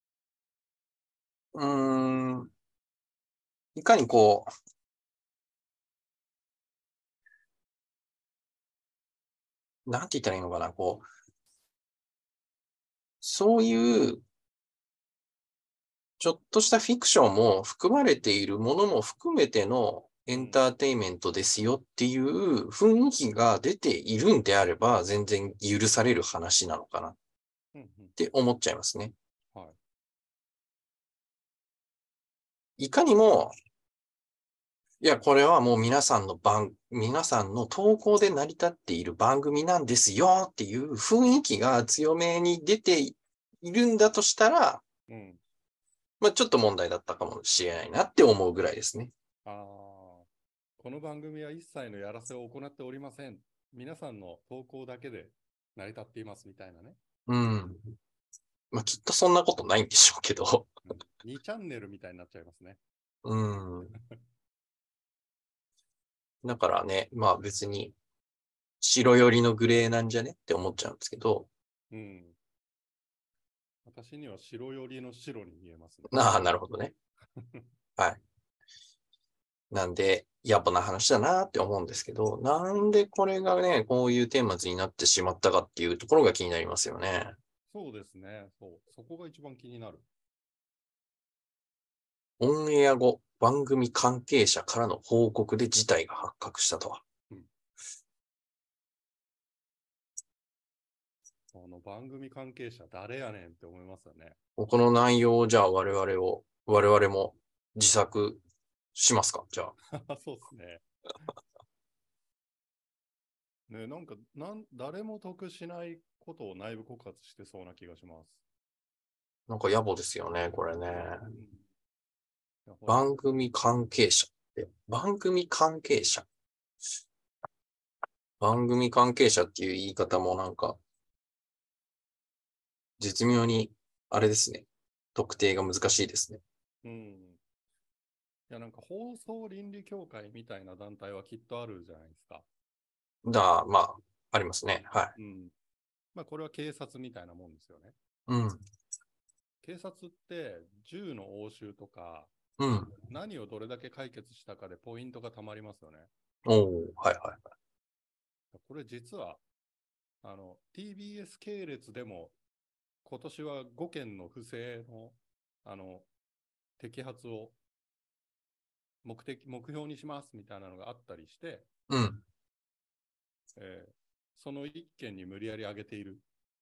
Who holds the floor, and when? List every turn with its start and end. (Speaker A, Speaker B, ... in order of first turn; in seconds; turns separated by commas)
Speaker A: 1.5-2.5, Speaker A: 3.8-4.5, Speaker A: 9.9-11.1, Speaker A: 13.2-14.2, Speaker A: 16.2-27.2, Speaker B: 20.3-20.6, Speaker B: 27.7-28.2, Speaker A: 28.2-29.1, Speaker A: 32.8-33.5, Speaker A: 35.0-44.8, Speaker B: 45.1-45.4, Speaker A: 46.2-49.1, Speaker B: 49.5-50.3, Speaker B: 50.8-57.0, Speaker A: 57.3-58.0, Speaker A: 58.7-60.7, Speaker B: 60.9-62.8, Speaker A: 63.2-64.0, Speaker A: 66.4-68.0, Speaker A: 68.8-71.5, Speaker B: 71.9-72.4, Speaker B: 73.8-76.4, Speaker A: 76.1-76.9, Speaker B: 77.4-77.7, Speaker A: 79.7-87.4, Speaker B: 87.7-90.1, Speaker A: 92.4-97.0, Speaker B: 101.5-104.4, Speaker A: 104.6-108.4, Speaker A: 109.0-109.7, Speaker B: 109.9-110.8, Speaker B: 113.7-118.4, Speaker A: 119.5-121.3, Speaker B: 120.9-121.7, Speaker B: 122.7-123.3, Speaker A: 122.9-126.3, Speaker A: 128.4-130.8, Speaker A: 133.0-136.4, Speaker B: 136.8-137.4, Speaker B: 138.5-142.5, Speaker A: 143.2-145.1, Speaker B: 145.2-145.5, Speaker B: 146.1-147.9, Speaker A: 148.3-148.6, Speaker B: 149.6-152.3, Speaker A: 152.6-152.9, Speaker B: 152.9-156.1, Speaker A: 156.4-157.4, Speaker B: 158.5-159.4, Speaker B: 160.2-162.3, Speaker B: 163.0-166.1, Speaker B: 166.8-167.6, Speaker B: 169.0-171.7, Speaker A: 171.9-172.2, Speaker B: 173.6-176.2